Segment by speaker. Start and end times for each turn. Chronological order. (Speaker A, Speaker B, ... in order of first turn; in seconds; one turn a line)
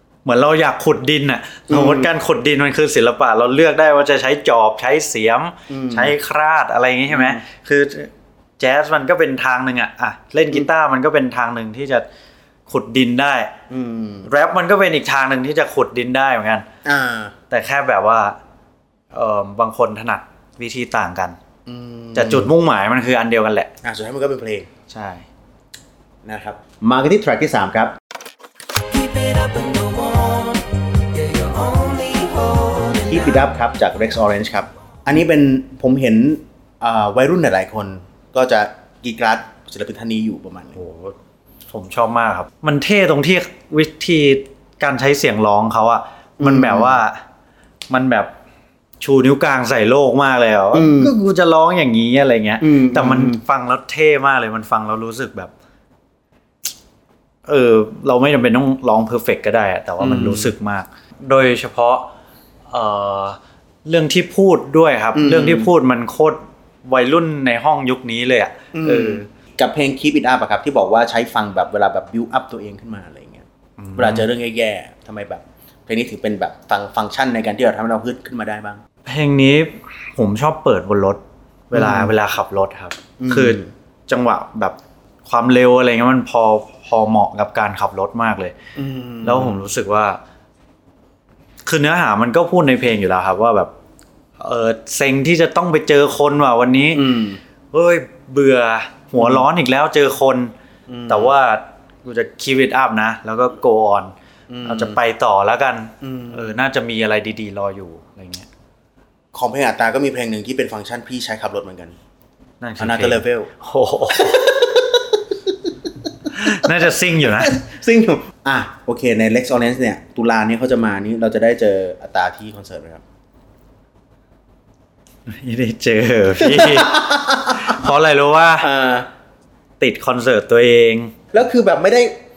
Speaker A: 0.2-12.1
Speaker B: 1.7-2.1
Speaker B: 5.7-6.1
Speaker B: 7.1-7.4
Speaker A: 12.7-13.5
Speaker B: 13.7-14.3
Speaker A: 14.2-16.6
Speaker B: 16.8-17.3
Speaker A: 17.5-18.4
Speaker A: 19.1-21.4
Speaker B: 21.6-22.5
Speaker A: 22.1-23.7
Speaker B: 23.8-24.7
Speaker A: 24.9-25.3
Speaker B: 26.2-27.9
Speaker C: 28.9-33.4
Speaker B: 33.0-40.8
Speaker A: 40.8-41.1
Speaker A: 41.7-47.2
Speaker B: 46.4-47.0
Speaker A: 47.9-48.3
Speaker A: 49.0-55.5
Speaker B: 50.7-51.1
Speaker B: 52.6-53.4
Speaker A: 57.5-62.1
Speaker B: 60.0-60.5
Speaker A: 62.7-69.2
Speaker B: 65.1-65.7
Speaker B: 68.7-78.8
Speaker A: 73.8-74.3
Speaker A: 79.0-88.5
Speaker B: 81.7-82.1
Speaker B: 83.2-83.7
Speaker B: 88.8-89.6
Speaker A: 89.2-90.2
Speaker A: 91.7-93.7
Speaker A: 94.4-97.1
Speaker B: 96.9-97.4
Speaker A: 97.7-100.5
Speaker B: 99.2-99.4
Speaker B: 100.9-101.3
Speaker A: 101.1-104.1
Speaker B: 104.5-105.0
Speaker A: 104.6-108.5
Speaker B: 106.0-106.5
Speaker B: 109.3-112.0
Speaker A: 112.6-114.5
Speaker B: 112.8-113.5
Speaker B: 114.1-123.0
Speaker A: 116.3-117.6
Speaker A: 125.3-128.7
Speaker B: 126.4-127.8
Speaker B: 128.6-129.1
Speaker A: 129.8-131.1
Speaker B: 131.3-132.1